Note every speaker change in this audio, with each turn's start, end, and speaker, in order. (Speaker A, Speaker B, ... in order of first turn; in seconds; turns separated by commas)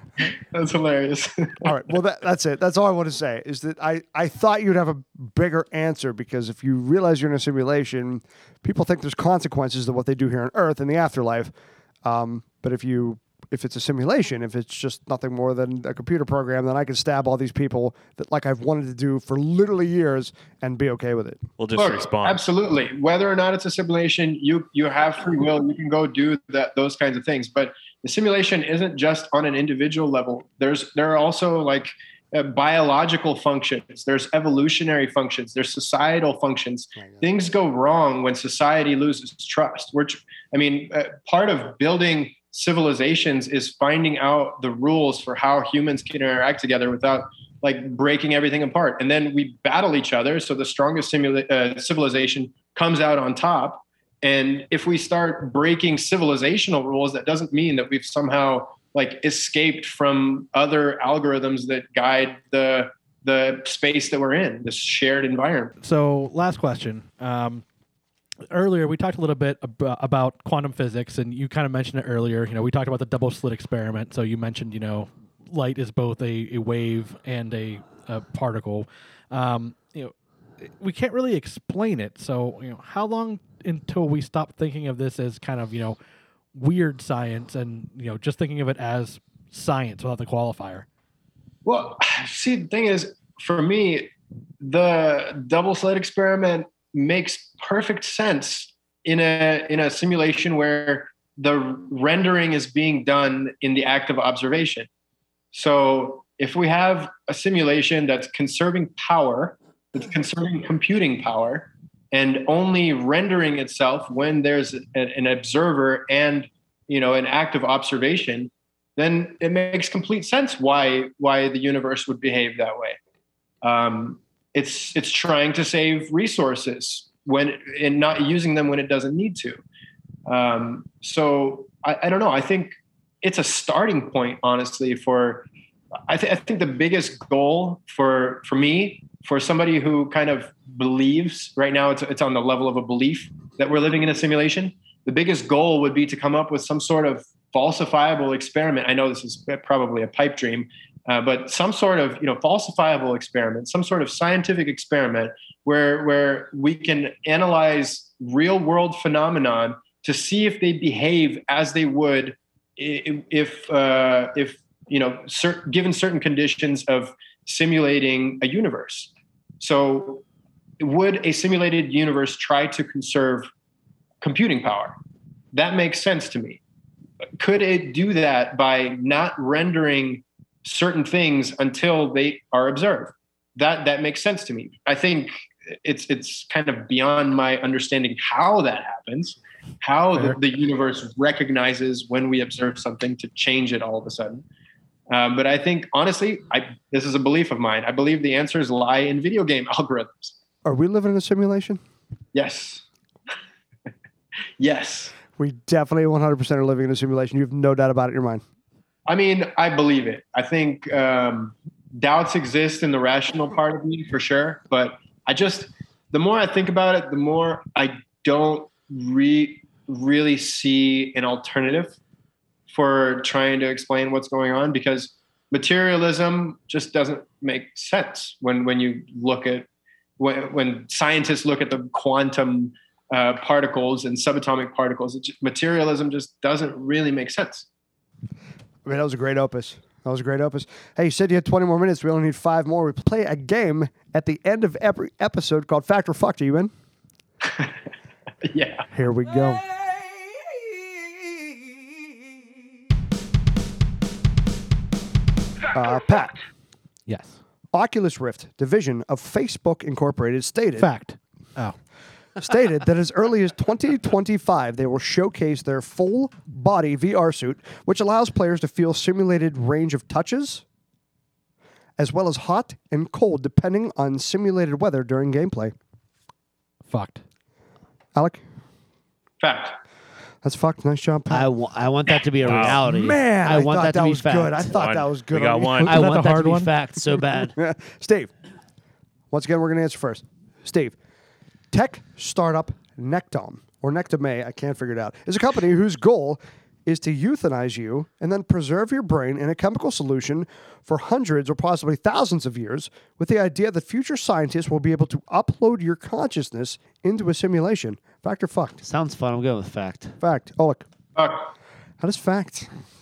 Speaker A: 0.5-1.8, Speaker B: 1.6-11.5, Speaker B: 12.0-21.4, Speaker C: 21.6-22.4, Speaker A: 21.7-65.7, Speaker B: 37.0-37.3, Speaker D: 65.8-67.6, Speaker D: 68.5-86.0, Speaker D: 86.5-90.8, Speaker A: 91.6-104.9, Speaker A: 105.5-123.0, Speaker A: 123.6-129.6, Speaker A: 130.3-135.5, Speaker A: 136.1-170.2, Speaker A: 170.8-173.5, Speaker A: 174.2-175.0, Speaker A: 175.5-176.6, Speaker A: 177.4-194.4, Speaker A: 195.1-200.3, Speaker B: 200.6-201.8, Speaker A: 202.3-202.8, Speaker A: 204.6-205.1, Speaker B: 205.3-208.4, Speaker A: 209.1-222.0, Speaker A: 222.7-229.7, Speaker A: 230.2-237.7, Speaker B: 238.8-246.7, Speaker A: 247.4-247.7, Speaker A: 248.4-248.9, Speaker B: 248.9-249.6, Speaker B: 255.7-256.3, Speaker D: 257.1-257.4, Speaker B: 257.7-260.9, Speaker D: 260.8-261.8, Speaker B: 262.4-270.6, Speaker B: 272.0-275.7, Speaker D: 276.9-277.2, Speaker B: 278.1-278.4, Speaker A: 279.4-279.8, Speaker B: 280.4-281.5, Speaker E: 281.3-284.7, Speaker C: 282.4-282.8, Speaker B: 282.4-285.9, Speaker C: 284.7-285.9, Speaker D: 285.8-286.7, Speaker E: 285.8-287.5, Speaker B: 287.4-288.3, Speaker B: 289.3-291.0, Speaker B: 291.7-308.8, Speaker E: 308.8-310.2, Speaker B: 310.2-310.8, Speaker A: 311.1-311.5, Speaker B: 312.0-312.7